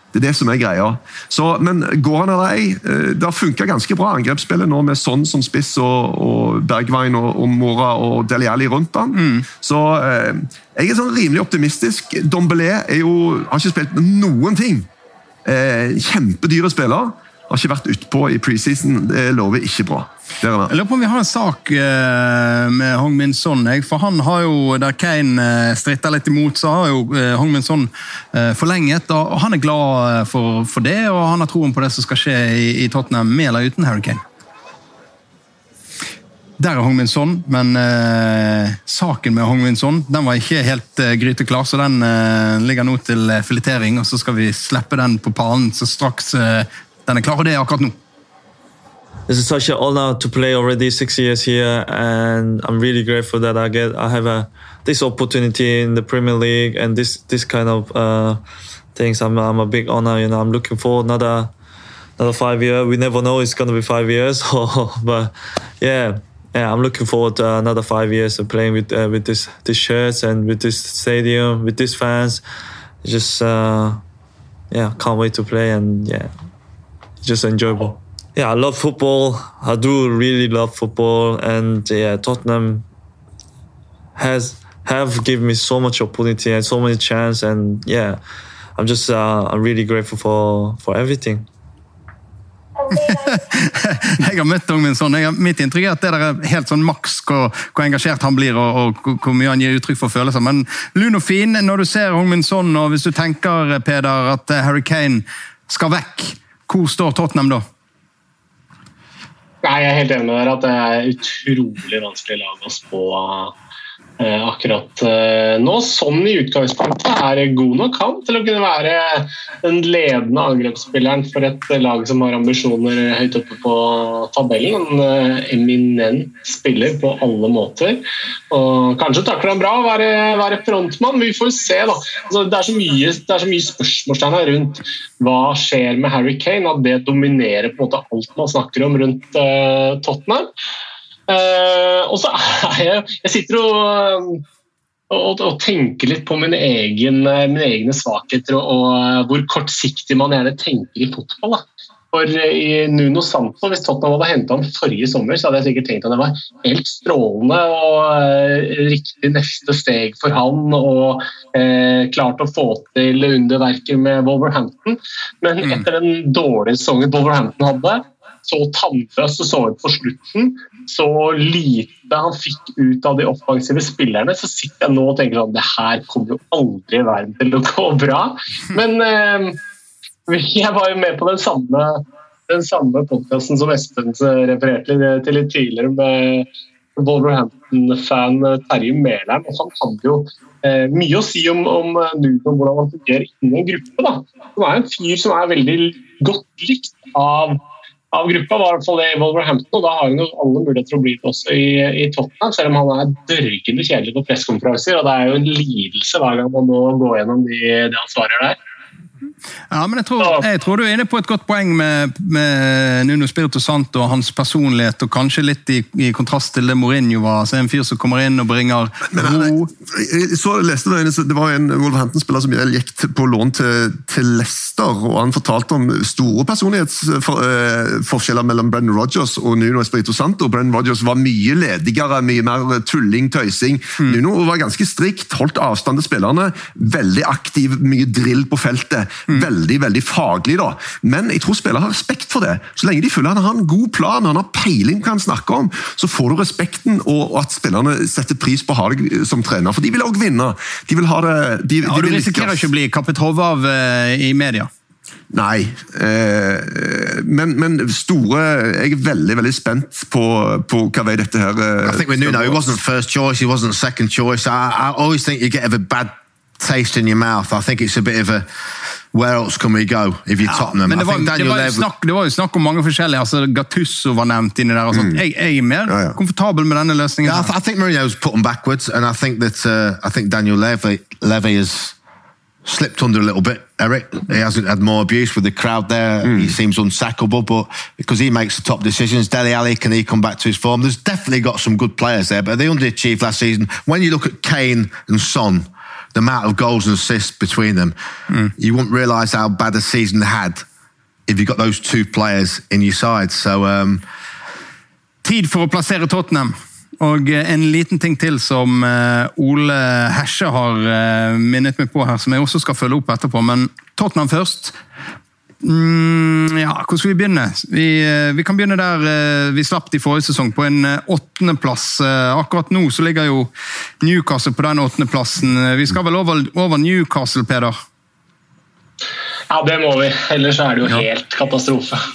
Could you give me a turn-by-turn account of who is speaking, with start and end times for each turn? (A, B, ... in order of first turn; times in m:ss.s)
0:00.1-0:14.9 A
0:09.1-0:09.5 B
0:15.4-0:20.7 A
0:20.7-0:34.2 B
0:36.6-0:48.0 B
0:49.3-1:01.5 C
1:02.2-1:12.4 C
1:13.0-1:14.0 C
1:14.7-1:16.4 C
1:17.2-1:22.9 C
1:24.2-1:28.2 C
1:28.8-1:31.5 C
1:32.9-1:47.6 B
1:49.6-1:53.5 D
1:54.2-2:20.5 D
2:21.3-2:24.4 D
2:25.1-2:59.6 D
3:00.3-3:17.6 D
3:18.1-3:28.6 D
3:29.7-3:39.7 B
3:39.1-4:12.7 A
4:11.8-4:14.7 B
4:15.3-4:22.6 A
4:21.8-4:28.5 E
4:29.1-4:31.9 E
4:30.4-4:37.5 B
4:34.9-4:35.2 A
4:35.9-4:36.2 A
4:37.2-4:42.0 E
4:42.6-4:58.0 E
4:46.2-4:46.5 A
4:58.6-5:00.6 E
5:01.3-5:04.0 E
5:05.2-5:14.8 B
5:15.6-5:27.8 B
5:29.5-5:32.0 D